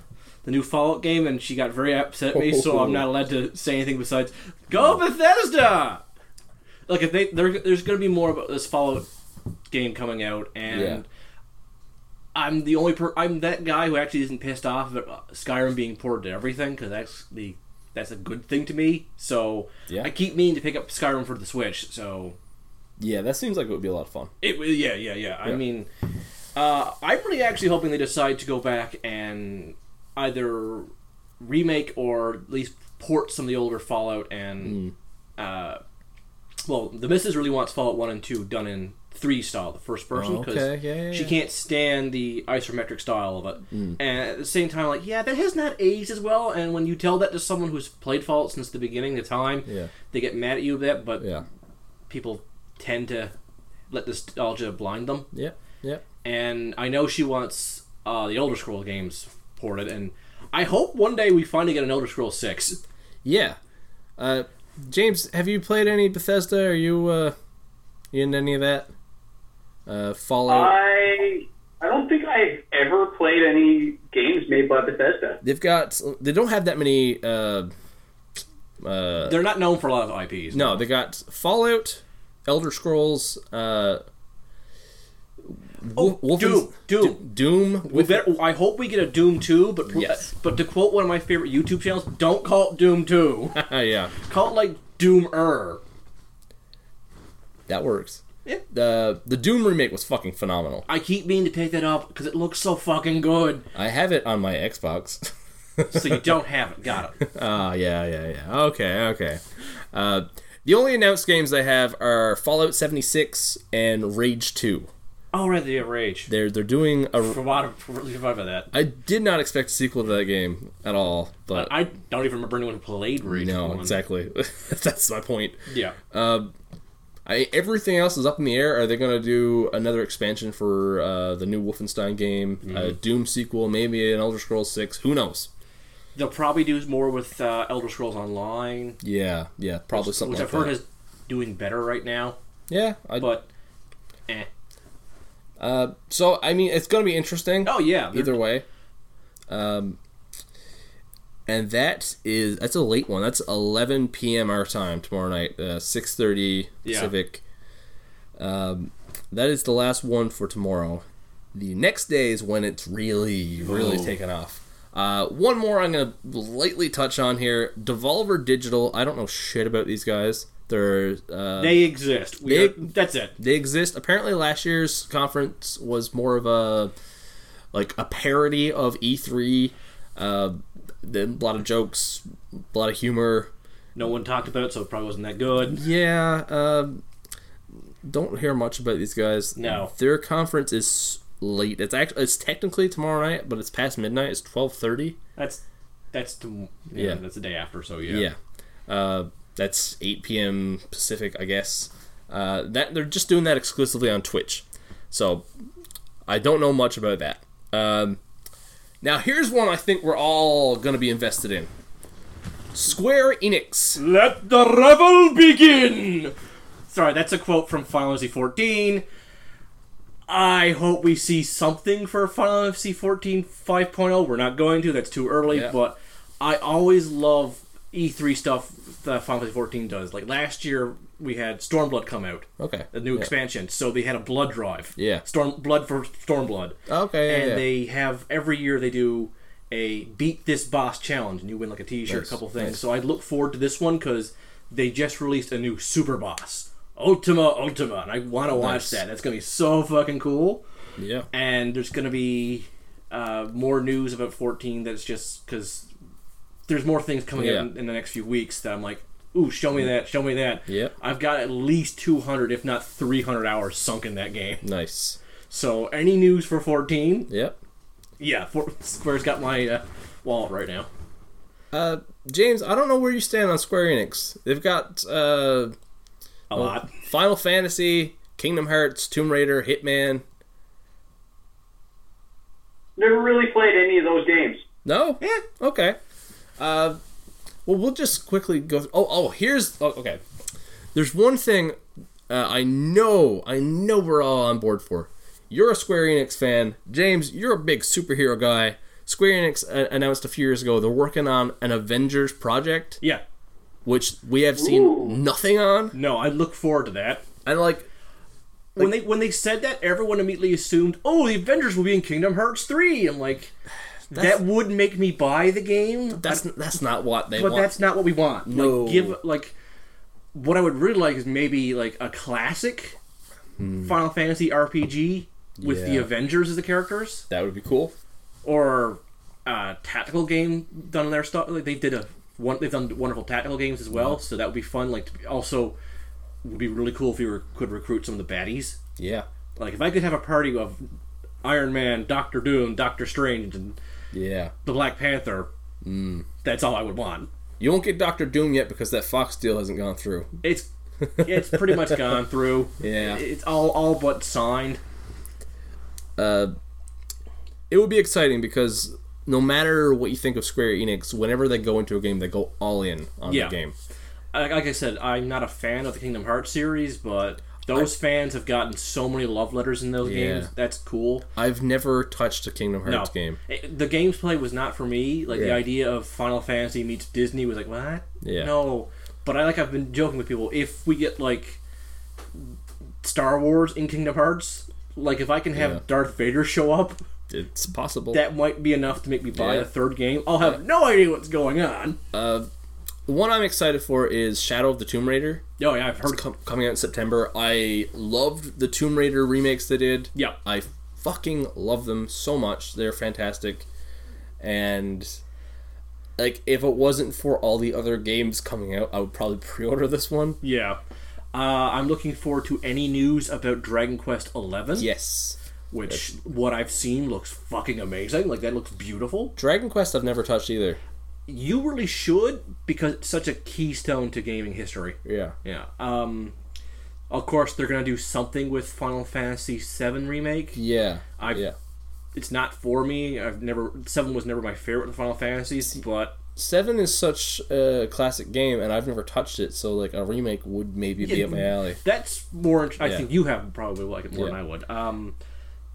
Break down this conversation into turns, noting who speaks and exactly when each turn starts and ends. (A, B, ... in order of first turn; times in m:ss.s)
0:00.4-0:06.0 A
0:02.3-0:03.1 B
0:06.9-0:09.1 A
0:09.7-0:11.1 A
0:10.7-0:11.0 B
0:12.4-0:22.4 A
0:23.0-0:24.3 B
0:24.4-0:25.9 A
0:26.6-0:34.8 A
0:34.6-0:34.9 B
0:35.4-0:35.8 A
0:36.6-0:51.3 A
0:40.1-0:41.4 B
0:43.7-0:44.0 B
0:49.7-0:49.9 B
0:51.2-0:51.4 B
0:52.1-0:53.3 A
0:53.9-0:55.3 A
0:55.3-0:56.0 B
0:56.2-1:02.8 A
1:03.2-1:03.6 B
1:04.2-1:07.4 B
1:08.1-1:08.9 B
1:09.9-1:10.7 B
1:10.5-1:15.4 C
1:15.4-1:17.7 B
1:18.8-1:19.4 B
1:19.2-1:20.8 A
1:20.5-1:24.0 B
1:25.8-1:28.3 B
1:26.0-1:27.2 A
1:27.8-1:33.6 A
1:29.9-1:30.2 B
1:33.6-1:34.1 B
1:34.2-1:35.8 A
1:37.7-1:40.9 B
1:40.9-1:43.7 A
1:43.7-1:46.3 B
1:45.9-1:47.2 A
1:47.2-1:49.4 B
1:49.9-1:54.9 B
1:55.3-1:56.3 A
1:56.3-1:57.4 B
1:57.2-1:58.7 A
1:58.7-2:01.7 B
2:01.5-2:04.0 A
2:03.3-2:05.6 B
2:05.7-2:06.0 A
2:06.1-2:06.5 B
2:07.3-2:15.5 B
2:12.6-2:13.0 A
2:16.2-2:19.0 A
2:19.0-2:20.8 B
2:19.9-2:22.4 A
2:22.7-2:23.3 B
2:23.2-2:23.5 A
2:25.6-2:28.6 B
2:27.6-2:28.4 A
2:29.5-2:30.0 B
2:31.5-2:37.4 B
2:36.8-2:37.1 A
2:38.4-2:51.8 B
2:43.6-2:44.1 A
2:51.6-2:53.4 A
2:52.5-2:56.9 B
2:57.7-3:03.5 B
3:04.0-3:05.8 A
3:05.8-3:07.0 B
3:08.0-3:15.2 B
3:09.6-3:09.9 A
3:16.1-3:18.3 A
3:17.0-3:17.2 B
3:18.1-3:25.5 B
3:26.3-3:28.2 B
3:29.0-3:31.7 B
3:32.7-3:34.0 B
3:34.0-3:36.3 A
3:36.9-3:39.0 A
3:40.3-4:10.6 A
3:45.5-3:45.8 B
3:52.6-3:53.3 B
3:55.0-3:55.2 B
3:56.9-3:57.6 B
4:02.1-4:02.8 B
4:08.5-4:09.0 B
4:11.0-4:11.3 B
4:11.3-4:15.9 A
4:16.7-4:24.6 A
4:17.4-4:17.7 B
4:20.7-4:20.9 B
4:24.6-4:25.2 B
4:25.5-4:27.3 A
4:27.3-4:27.6 B
4:28.2-4:30.9 A
4:31.7-4:35.8 B
4:36.5-4:36.9 A
4:36.5-4:40.2 B
4:43.0-4:44.6 C
4:44.8-4:46.0 B
4:46.6-4:47.0 B
4:47.7-4:50.2 B
4:50.9-4:51.8 B
4:52.3-5:03.0 B
5:03.8-5:06.0 B
5:04.6-5:05.2 C
5:05.9-5:07.3 A
5:07.4-5:07.9 B
5:08.8-5:13.5 A
5:14.1-5:14.4 B
5:14.1-5:16.4 A
5:16.1-5:17.7 B
5:17.3-5:19.5 A
5:18.5-5:19.2 B
5:20.3-5:23.0 A
5:23.6-5:24.0 B
5:23.8-5:27.3 A
5:25.6-5:26.1 B
5:27.3-5:27.9 B
5:28.4-5:35.8 A
5:33.9-5:34.2 B
5:36.4-5:38.8 A
5:39.0-5:39.3 B
5:39.6-5:40.9 A
5:41.4-5:43.8 A
5:44.1-5:44.5 B
5:44.6-5:45.5 A
5:45.8-5:46.3 B
5:46.4-5:47.3 A
5:47.6-5:50.4 B
5:50.4-5:54.8 A
5:51.0-5:52.1 B
5:52.8-5:53.2 B
5:56.2-5:56.5 B
5:57.7-6:03.8 B
6:03.3-6:03.6 A
6:04.3-6:11.3 A
6:10.0-6:10.5 B
6:11.4-6:13.4 B
6:12.8-6:21.6 A
6:15.3-6:15.6 B
6:18.2-6:18.5 B
6:23.0-6:27.0 A
6:25.5-6:25.8 B
6:27.3-6:28.2 B
6:28.1-6:32.0 A
6:29.4-6:29.7 B
6:32.1-6:32.5 B
6:33.1-6:35.4 B
6:35.6-6:36.2 A
6:36.0-6:43.7 B
6:44.4-6:45.2 B
6:46.2-6:50.4 B
6:50.4-6:50.8 A
6:51.3-6:54.9 A
6:54.8-6:55.4 B
6:55.7-6:59.3 A
6:59.4-7:00.8 B
7:01.3-7:06.3 A
7:05.0-7:05.4 B
7:07.1-7:10.6 A
7:10.6-7:11.6 B
7:11.2-7:11.4 A
7:12.1-7:16.2 A
7:16.4-7:21.8 B
7:21.0-7:25.2 A
7:22.8-7:23.1 B